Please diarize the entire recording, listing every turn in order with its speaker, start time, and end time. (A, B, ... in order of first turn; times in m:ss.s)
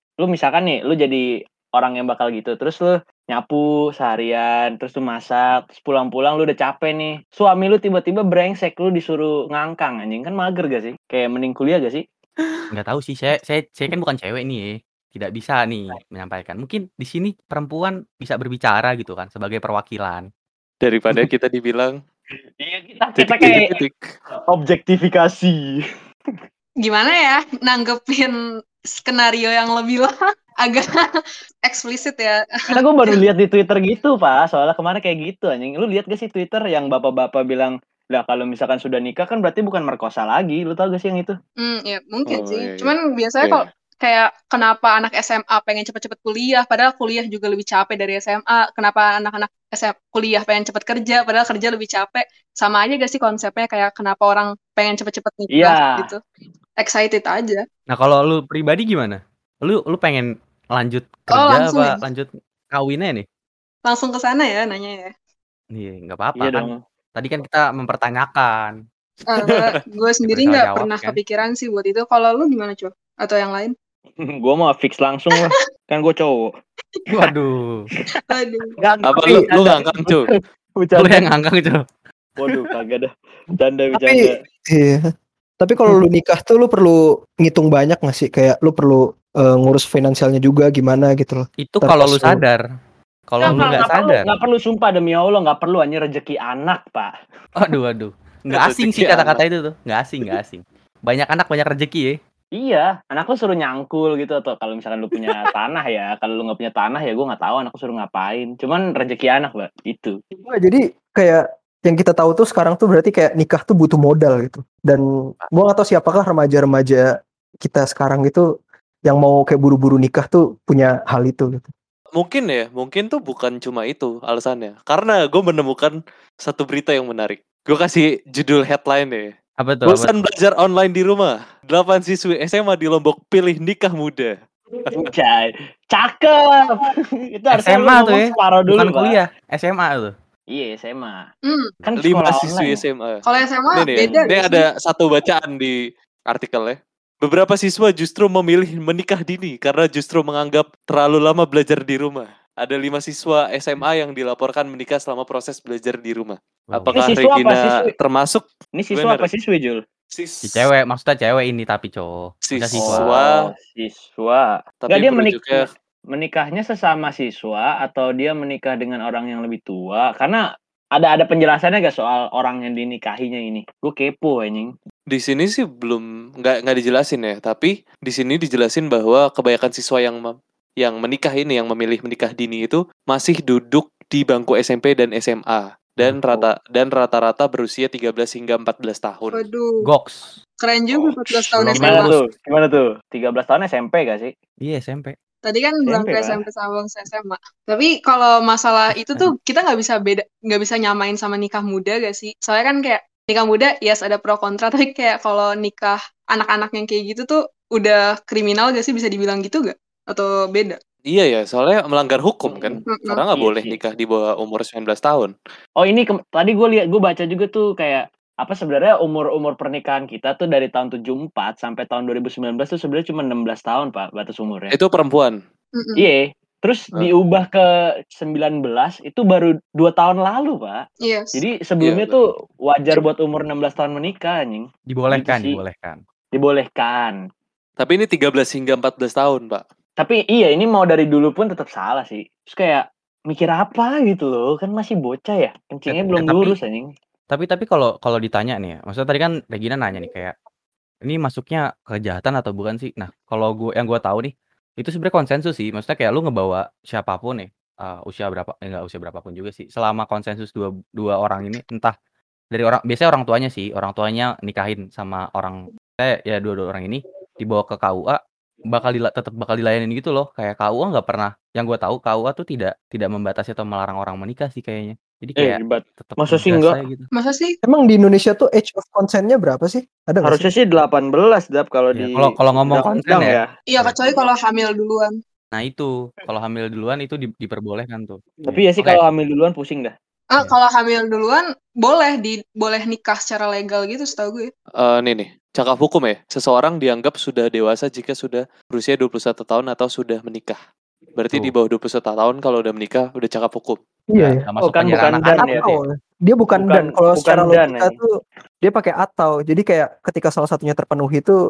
0:00.2-0:12.0 A
0:12.7-0:20.2 B
0:20.8-0:22.0 C
0:22.6-0:23.7 A
0:23.2-0:24.1 C
0:24.5-0:25.7 A
0:26.8-0:28.4 D
0:28.9-0:32.4 D
0:32.7-0:41.4 A
0:41.6-0:56.2 D
0:42.3-0:43.5 C
0:55.6-0:56.1 A
0:56.8-0:57.6 D
0:57.9-1:03.3 B
1:01.3-1:02.0 D
1:03.8-1:05.1 D
1:05.7-1:08.8 B
1:06.4-1:06.8 A
1:09.3-1:13.7 D
1:10.3-1:11.2 B
1:14.2-1:16.5 A
1:17.1-1:17.9 B
1:18.3-1:18.8 D
1:18.8-1:21.3 A
1:19.1-1:20.3 C
1:20.9-1:21.8 B
1:22.4-1:24.4 A
1:24.0-1:25.0 E
1:25.6-1:32.4 E
1:31.6-1:32.6 B
1:33.3-1:34.3 B
1:33.4-1:37.1 A
1:37.6-1:42.1 B
1:38.5-1:39.4 C
1:42.6-1:50.2 A
1:50.4-1:57.1 E
1:57.6-1:58.5 E
1:59.1-2:01.7 E
2:02.2-2:09.3 C
2:09.6-2:10.2 B
2:09.9-2:14.3 C
2:14.8-2:15.1 C
2:14.9-2:19.2 A
2:17.5-2:20.1 B
2:20.5-2:21.3 A
2:21.5-2:21.7 D
2:21.8-2:22.8 A
2:22.0-2:25.8 C
2:23.2-2:24.6 D
2:26.3-2:39.3 C
2:36.7-2:37.0 B
2:36.9-2:37.9 A
2:38.8-2:39.8 A
2:40.1-2:40.7 C
2:40.4-2:43.2 B
2:42.5-2:43.3 C
2:42.8-2:50.4 A
2:44.8-2:45.7 C
2:51.0-2:54.7 A
2:55.1-3:09.4 C
3:09.3-3:09.9 D
3:09.8-3:10.4 B
3:10.6-3:12.1 D
3:11.6-3:12.2 B
3:11.7-3:14.3 A
3:14.6-3:15.2 B
3:15.4-3:30.8 D
3:15.9-3:16.4 A
3:31.1-3:35.3 C
3:32.5-3:32.8 A
3:32.9-3:33.2 D
3:33.4-3:33.8 A
3:35.8-3:44.8 A
3:44.7-3:45.4 C
3:45.8-3:46.1 D
3:46.0-3:55.6 A
3:51.0-3:51.4 D
3:51.8-3:52.2 C
3:54.9-3:56.0 B
3:56.4-3:57.2 A
3:57.8-3:59.6 C
4:00.0-4:06.9 A
4:05.9-4:06.6 B
4:07.3-4:10.4 B
4:11.1-4:22.0 B
4:22.5-4:37.1 B
4:35.4-4:36.8 A
4:37.1-4:37.6 D
4:37.6-4:40.4 E
4:40.2-4:43.5 A
4:42.0-4:44.0 B
4:43.7-4:45.2 D
4:45.5-4:49.0 B
4:48.4-4:49.9 A
4:50.3-4:54.5 D
4:54.8-5:00.6 C
5:01.2-5:03.8 C
5:04.1-5:04.4 E
5:04.2-5:05.8 B
5:04.6-5:05.7 A
5:05.3-5:08.1 E
5:06.5-5:07.9 A
5:08.6-5:11.4 E